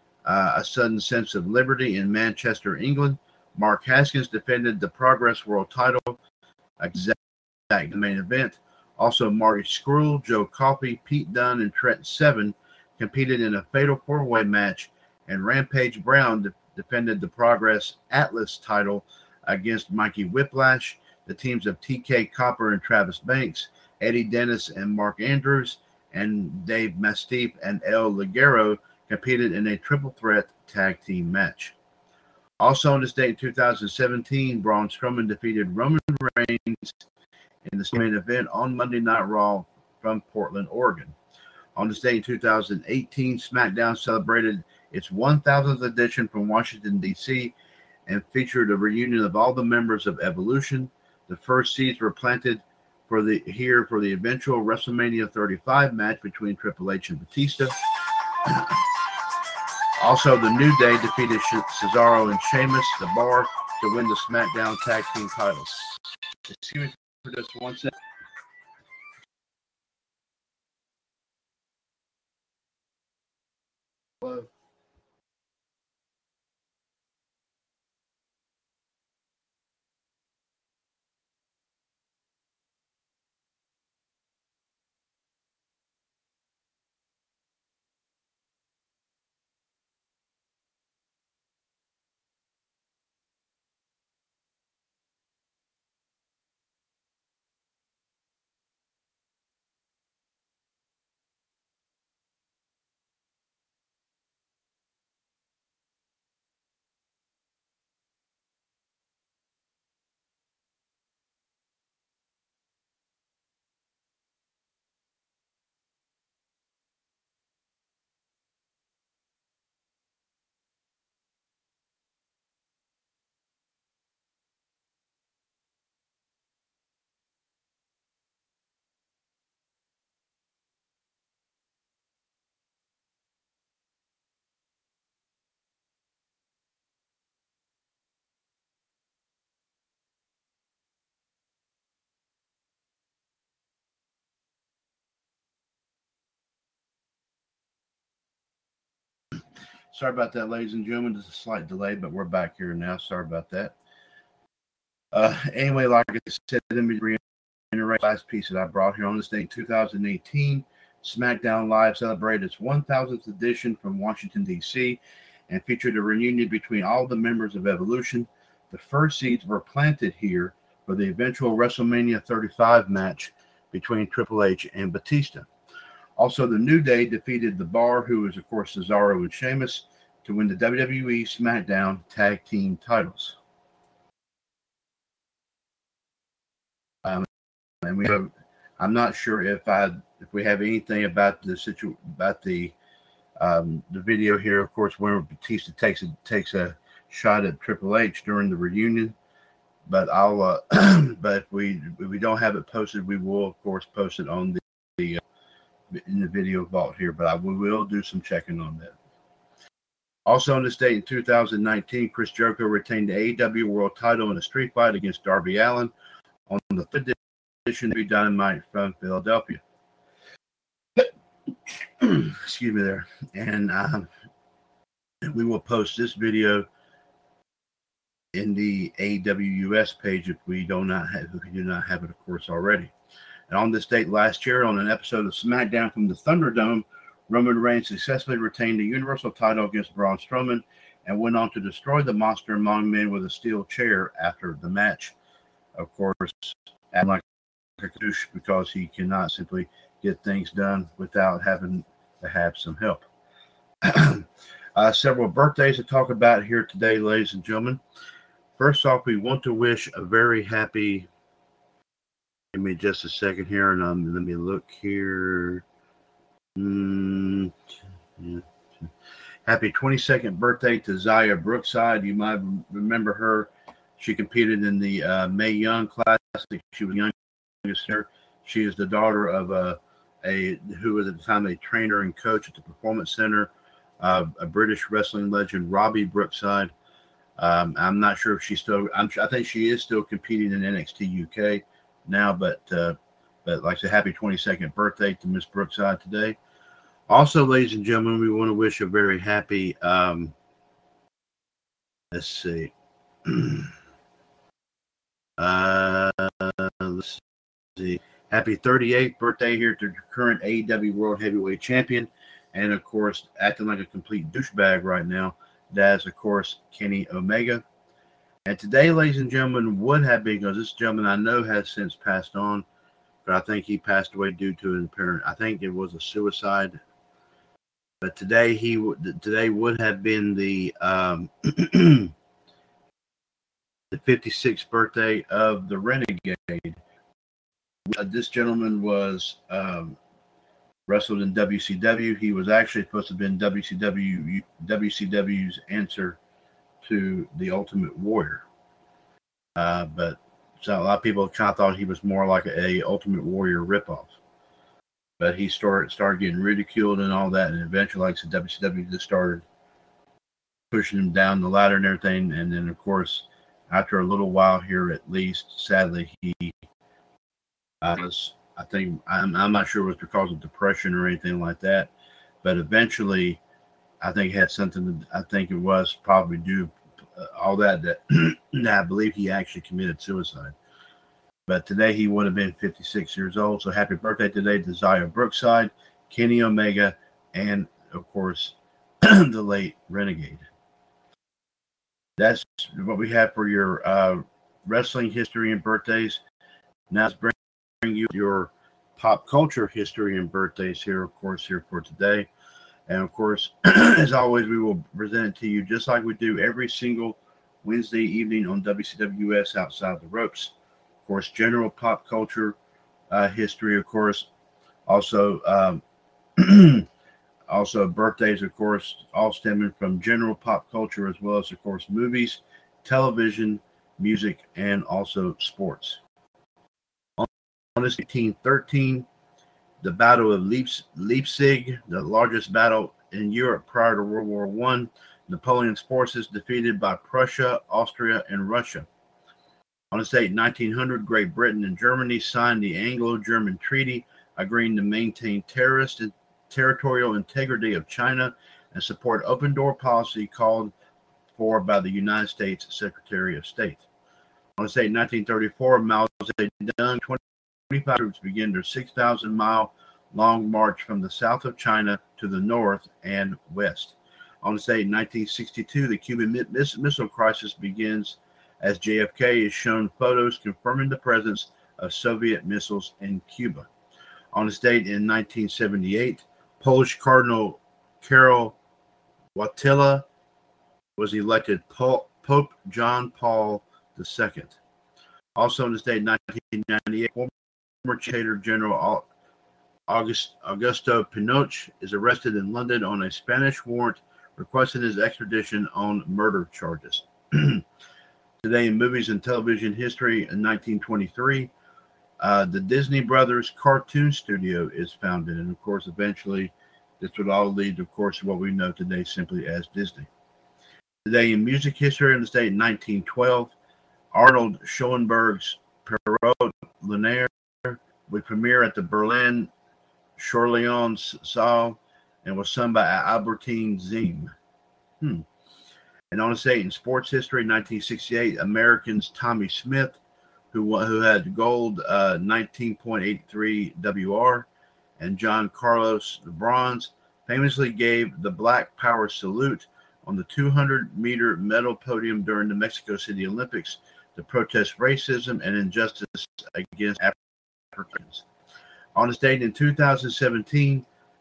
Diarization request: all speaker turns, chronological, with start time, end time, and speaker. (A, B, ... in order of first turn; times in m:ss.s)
0:00.3-0:06.2 A
0:06.8-0:07.2 A
0:07.7-0:31.8 A
0:32.6-0:37.0 A
0:37.7-0:41.2 A
0:41.8-0:47.5 A
0:48.1-0:57.8 A
0:58.4-0:58.8 A
1:00.0-1:07.9 A
1:14.2-1:14.5 A
2:29.9-2:33.8 A
2:35.1-2:55.5 A
2:56.2-3:03.4 A
3:07.8-3:12.8 A
3:13.4-3:19.2 A
3:19.9-3:25.2 A
3:25.9-3:29.0 A
3:30.3-3:35.9 A
3:36.5-3:39.6 A
3:42.0-3:44.1 A
3:45.2-3:46.7 A
3:48.3-3:52.9 A
3:53.5-4:05.2 A
4:05.8-4:07.2 A
4:07.8-4:13.1 A
4:13.8-4:17.8 A
4:18.6-4:21.1 A
4:22.5-4:25.6 A
4:26.6-4:27.5 A
4:28.2-4:28.9 A
4:29.5-4:46.7 A
4:47.4-4:56.4 A
4:57.1-5:00.3 A
5:02.1-5:02.7 A
5:03.2-5:03.7 A
5:05.4-5:07.2 A
5:07.8-5:17.6 A
5:18.5-5:22.6 A
5:23.2-5:26.8 A
5:28.0-5:32.1 A
5:33.9-5:36.8 A
5:37.9-5:40.0 A
5:40.9-5:46.2 A
5:46.8-5:48.4 A
5:49.6-5:54.2 A
5:55.2-5:59.4 A
6:00.7-6:06.6 A
6:07.8-6:11.9 A
6:12.4-6:13.4 A
6:14.0-6:20.6 A
6:21.5-6:30.4 A
6:32.2-6:36.2 A
6:36.9-6:42.3 A
6:42.9-6:50.5 A
6:51.0-6:52.6 A
6:53.1-6:54.3 A
6:54.9-6:55.8 A
6:56.4-6:56.9 A
6:57.5-7:06.0 A
7:07.2-7:09.1 A
7:09.8-7:18.9 A
7:19.9-7:30.7 A
7:31.4-7:33.8 A
7:34.6-7:53.7 A
7:54.3-7:58.6 A
7:59.4-8:00.1 A
8:01.0-8:04.6 A
8:05.4-8:09.0 A
8:09.9-8:17.6 A
8:18.4-8:21.5 A
8:22.2-8:30.1 A
8:31.0-8:33.5 A
8:34.1-8:39.5 A
8:40.2-8:44.3 A
8:45.0-8:45.3 A
8:46.1-8:50.0 A
8:50.5-8:54.5 A
8:55.0-9:07.2 A
9:07.7-9:08.2 A
9:09.0-9:10.9 A